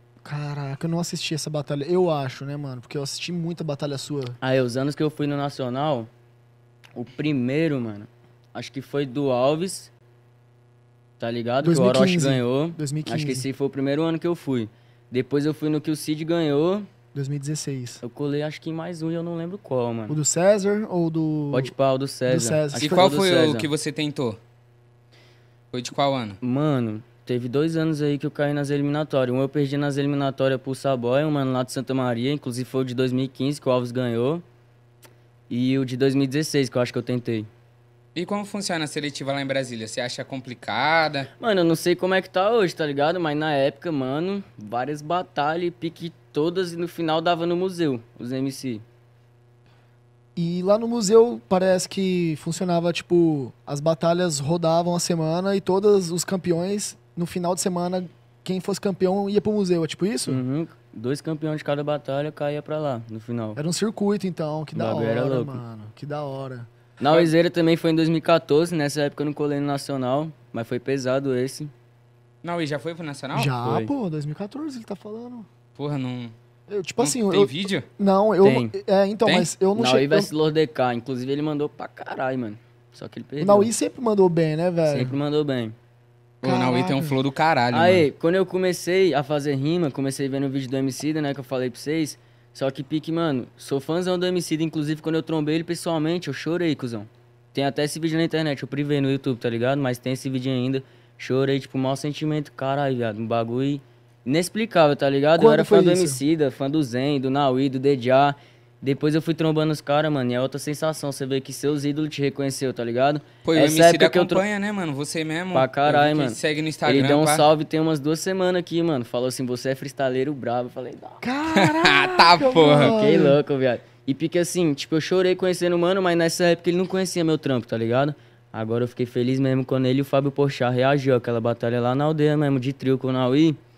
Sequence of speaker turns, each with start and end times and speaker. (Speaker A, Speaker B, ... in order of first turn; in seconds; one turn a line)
Speaker A: 0.2-4.4
Speaker B: 4.4-6.1
Speaker B: 7.0-9.9
Speaker B: 11.2-16.9
Speaker A: 11.6-13.5
Speaker A: 17.1-18.0
Speaker B: 18.0-20.2
Speaker A: 20.1-21.7
Speaker B: 21.5-23.7
Speaker A: 22.3-23.1
Speaker C: 22.8-24.4
Speaker C: 25.7-26.4
Speaker B: 26.4-34.4
Speaker B: 35.5-37.5
Speaker C: 38.1-41.3
Speaker B: 41.4-48.8
Speaker A: 50.4-60.4
Speaker B: 60.2-63.6
Speaker A: 63.6-66.7
Speaker B: 64.7-65.6
Speaker B: 67.0-71.7
Speaker C: 67.0-67.3
Speaker C: 72.4-73.5
Speaker A: 73.3-75.5
Speaker B: 73.6-73.9
Speaker C: 75.8-76.3
Speaker A: 76.7-80.3
Speaker C: 77.0-77.9
Speaker B: 78.4-78.7
Speaker C: 79.2-79.5
Speaker B: 79.7-83.7
Speaker A: 83.4-85.2
Speaker B: 84.8-85.7
Speaker A: 86.4-87.2
Speaker C: 86.4-88.1
Speaker B: 87.7-114.4
Speaker A: 105.4-106.2
Speaker C: 113.4-117.5
Speaker B: 115.5-121.2
Speaker A: 121.2-123.4
Speaker C: 121.5-123.0
Speaker B: 122.9-133.6